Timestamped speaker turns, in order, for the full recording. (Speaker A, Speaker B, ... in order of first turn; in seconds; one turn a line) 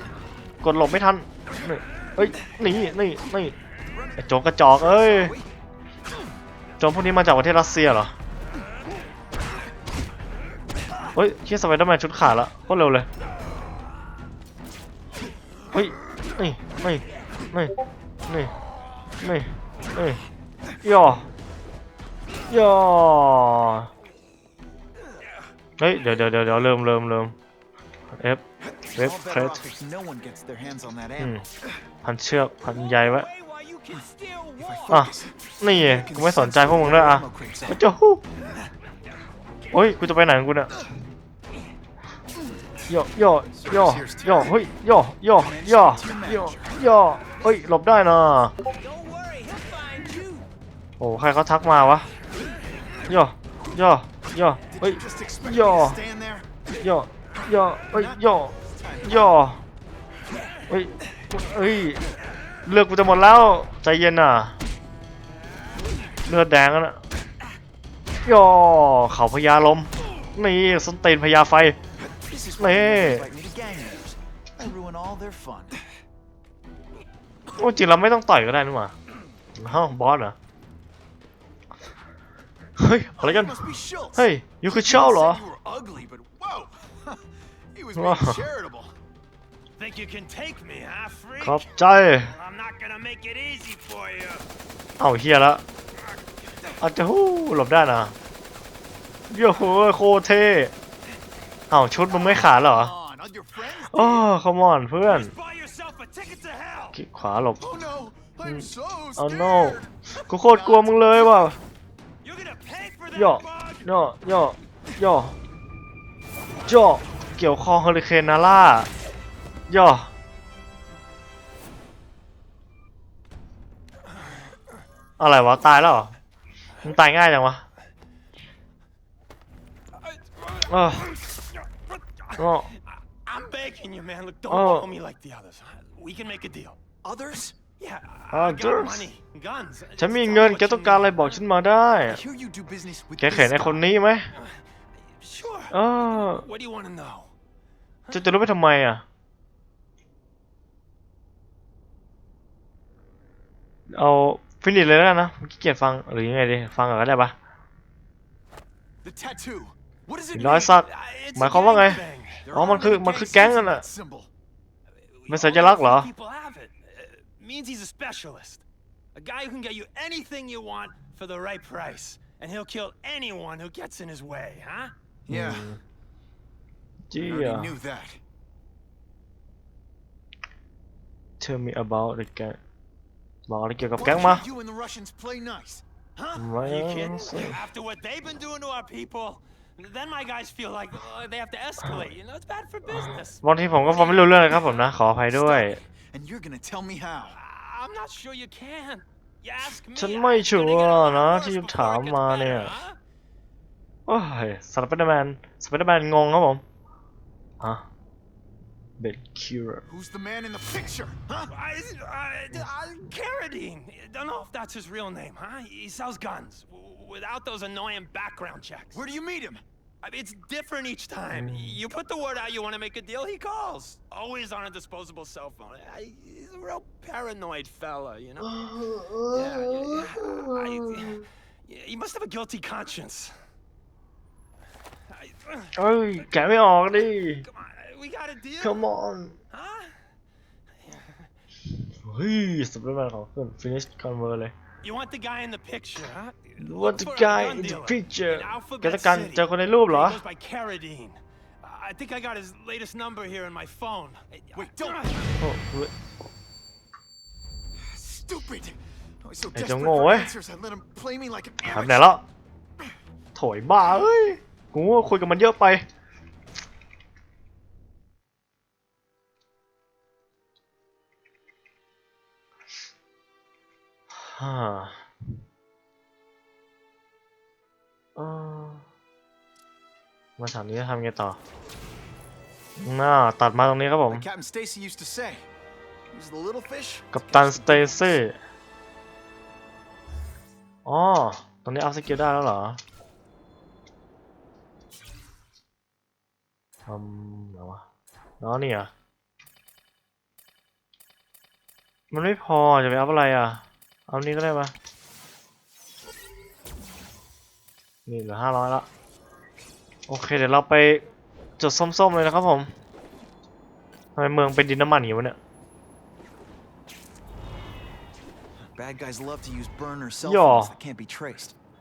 Speaker A: 0.6-3.6
Speaker B: 3.9-5.5
Speaker A: 4.2-5.3
Speaker A: 6.8-8.2
Speaker A: 11.1-13.1
Speaker A: 15.7-17.8
Speaker A: 18.3-18.5
Speaker A: 19.2-20.2
Speaker A: 20.8-21.3
Speaker A: 22.5-23.9
Speaker A: 25.8-27.4
Speaker A: 28.1-28.4
Speaker B: 28.8-31.4
Speaker A: 29.0-29.6
Speaker A: 31.2-31.5
Speaker A: 32.0-33.3
Speaker C: 32.7-35.0
Speaker B: 34.6-37.8
Speaker A: 34.9-38.2
Speaker A: 39.7-40.8
Speaker B: 42.3-42.9
Speaker A: 42.9-48.5
Speaker B: 43.5-44.7
Speaker B: 45.4-47.8
Speaker C: 48.8-50.5
Speaker A: 51.0-52.1
Speaker A: 53.1-56.0
Speaker B: 54.7-56.6
Speaker A: 56.8-59.6
Speaker B: 57.4-59.4
Speaker A: 60.7-62.0
Speaker A: 62.6-64.6
Speaker A: 66.3-67.0
Speaker A: 68.2-71.8
Speaker B: 72.0-75.8
Speaker A: 72.6-73.3
Speaker A: 77.5-79.0
Speaker A: 79.6-80.4
Speaker A: 82.8-83.6
Speaker B: 83.2-89.0
Speaker A: 84.2-85.4
Speaker A: 88.0-88.4
Speaker C: 89.8-91.7
Speaker A: 91.4-92.3
Speaker C: 92.2-94.5
Speaker A: 95.0-95.6
Speaker A: 96.8-98.2
Speaker A: 99.3-100.7
Speaker A: 101.7-102.9
Speaker B: 102.0-104.3
Speaker A: 103.9-105.3
Speaker C: 105.1-107.0
Speaker A: 106.9-107.7
Speaker B: 107.6-111.6
Speaker A: 108.4-111.6
Speaker C: 112.2-113.9
Speaker A: 113.2-115.4
Speaker A: 116.7-118.9
Speaker A: 119.7-120.1
Speaker A: 125.2-126.2
Speaker A: 126.8-127.7
Speaker C: 130.0-136.8
Speaker A: 130.7-131.1
Speaker A: 132.4-132.7
Speaker A: 134.5-134.9
Speaker B: 137.0-137.6
Speaker C: 137.8-141.4
Speaker A: 138.3-139.1
Speaker A: 140.0-142.2
Speaker B: 142.1-143.8
Speaker A: 143.2-144.3
Speaker C: 144.3-147.3
Speaker A: 145.7-146.4
Speaker C: 148.1-148.4
Speaker A: 148.1-149.0
Speaker A: 153.9-157.4
Speaker B: 159.0-160.8
Speaker A: 160.3-163.8
Speaker C: 160.8-162.4
Speaker B: 162.4-164.3
Speaker C: 165.1-168.6
Speaker A: 165.3-166.1
Speaker C: 169.2-174.9
Speaker B: 175.3-175.7
Speaker A: 175.3-175.8
Speaker A: 177.1-177.8
Speaker B: 177.2-178.2
Speaker A: 181.4-182.6
Speaker A: 183.5-184.4
Speaker B: 184.0-185.8
Speaker C: 186.2-194.9
Speaker A: 186.4-187.6
Speaker A: 192.9-195.8
Speaker B: 195.3-197.4
Speaker C: 197.3-203.0
Speaker A: 199.9-202.8
Speaker A: 204.1-206.6
Speaker A: 207.6-207.9
Speaker A: 209.0-209.8
Speaker B: 209.9-211.5
Speaker C: 211.5-219.0
Speaker B: 218.9-219.6
Speaker C: 220.0-228.5
Speaker A: 221.3-221.8
Speaker A: 228.4-231.2
Speaker C: 229.3-233.4
Speaker C: 235.1-235.7
Speaker A: 235.8-237.4
Speaker C: 237.4-238.8
Speaker A: 238.6-239.3
Speaker C: 239.5-240.0
Speaker C: 240.8-241.3
Speaker A: 242.0-244.5
Speaker C: 244.8-255.3
Speaker A: 246.6-250.2
Speaker B: 254.5-255.2
Speaker A: 255.4-255.9
Speaker B: 257.8-262.2
Speaker A: 259.5-260.3
Speaker A: 261.6-262.2
Speaker A: 263.4-265.9
Speaker A: 274.1-275.0
Speaker A: 278.2-278.9
Speaker A: 280.4-281.4
Speaker A: 282.8-284.3
Speaker B: 284.1-285.5
Speaker B: 286.1-288.2
Speaker A: 287.1-288.4
Speaker A: 290.9-292.8
Speaker A: 296.9-297.8
Speaker A: 298.4-298.9
Speaker A: 302.1-304.7
Speaker A: 308.1-308.9
Speaker A: 310.1-311.1
Speaker A: 311.6-312.7
Speaker A: 314.2-315.4
Speaker B: 318.6-321.6
Speaker A: 320.2-320.7